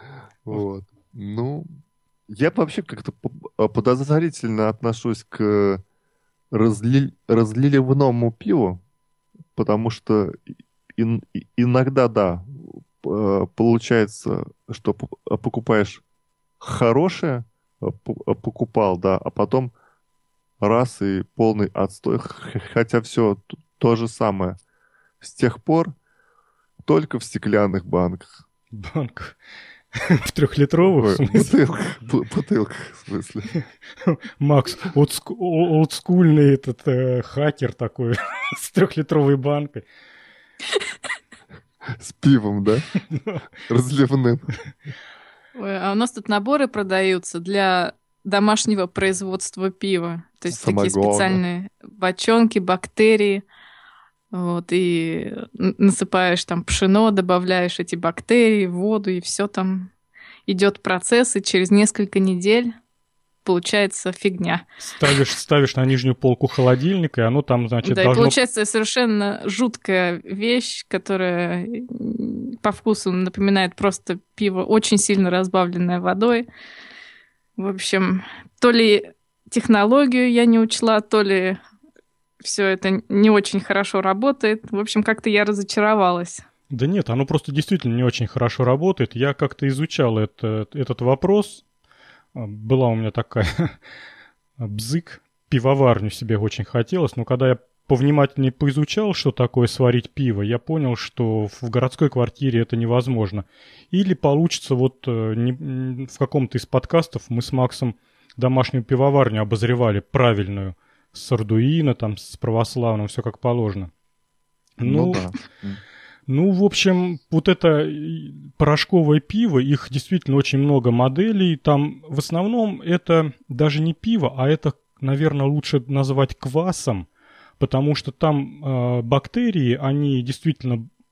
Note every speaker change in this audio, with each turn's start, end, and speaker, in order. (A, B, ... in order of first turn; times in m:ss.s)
0:00.4-0:01.7 A
0:02.3-0:05.8 A
0:06.5-0:08.8 A
0:09.5-0:10.4 A
0:11.0-0:16.0 A
0:16.6-0:19.7 A
0:20.6-0:24.6 A
0:25.2-0:25.9 A
0:26.8-0:28.4 A
0:28.7-0:29.4 B
0:29.9-0:31.5 B
0:30.9-0:33.5 A
0:34.1-0:39.8 B
0:41.9-0:42.9 A
0:43.1-0:43.4 B
0:43.7-0:44.5 A
0:45.6-0:53.4 C
0:50.5-0:51.4 A
0:54.3-0:59.9 C
1:00.5-1:02.7 C
1:03.4-1:04.6 C
1:04.8-1:08.4 B
1:07.8-1:16.5 C
1:17.6-1:21.6 C
1:22.4-1:26.4 C
1:26.7-1:31.6 B
1:32.4-1:33.8 B
1:34.6-1:53.9 B
1:54.8-1:55.3 B
1:54.8-1:55.8 A
1:56.3-2:07.1 B
2:07.6-2:10.8 B